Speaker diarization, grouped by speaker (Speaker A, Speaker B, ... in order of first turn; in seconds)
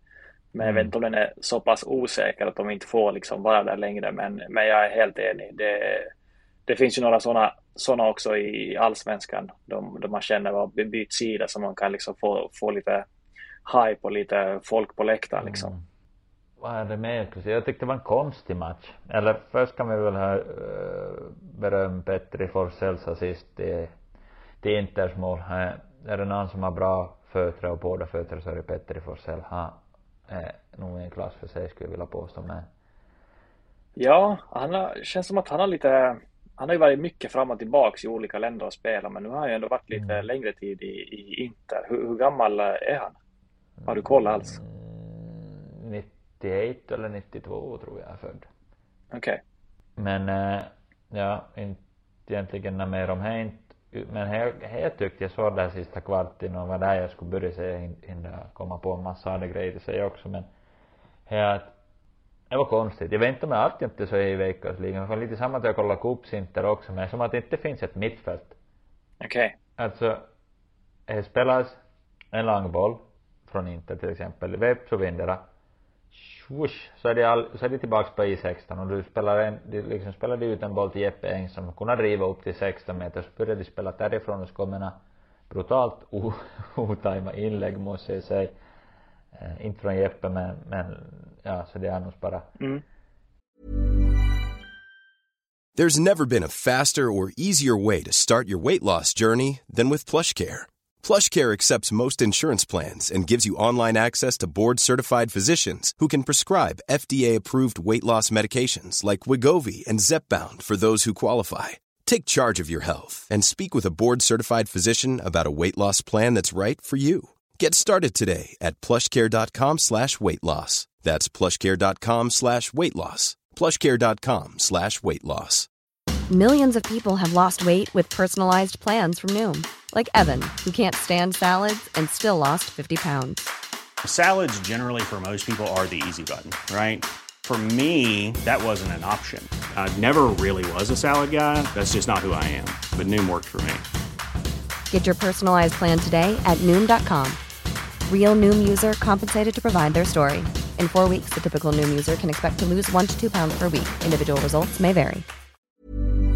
Speaker A: 0.5-6.1, 6.7-13.1, 13.7-15.7, 34.0-43.1, 43.9-44.6, 49.1-49.4, 69.2-69.5, 92.6-92.8
Speaker B: 0.6-0.9, 15.4-15.8, 16.6-23.9, 24.6-32.7, 39.9-40.2, 43.8-48.5, 50.0-60.5, 61.3-61.7, 62.5-68.5, 69.8-70.2, 71.1-71.8, 72.3-75.4, 76.1-88.5, 89.3-92.5
Speaker C: 95.8-125.7
Speaker D: 126.3-133.4, 144.9-147.4, 148.1-155.2
Speaker E: 134.0-143.8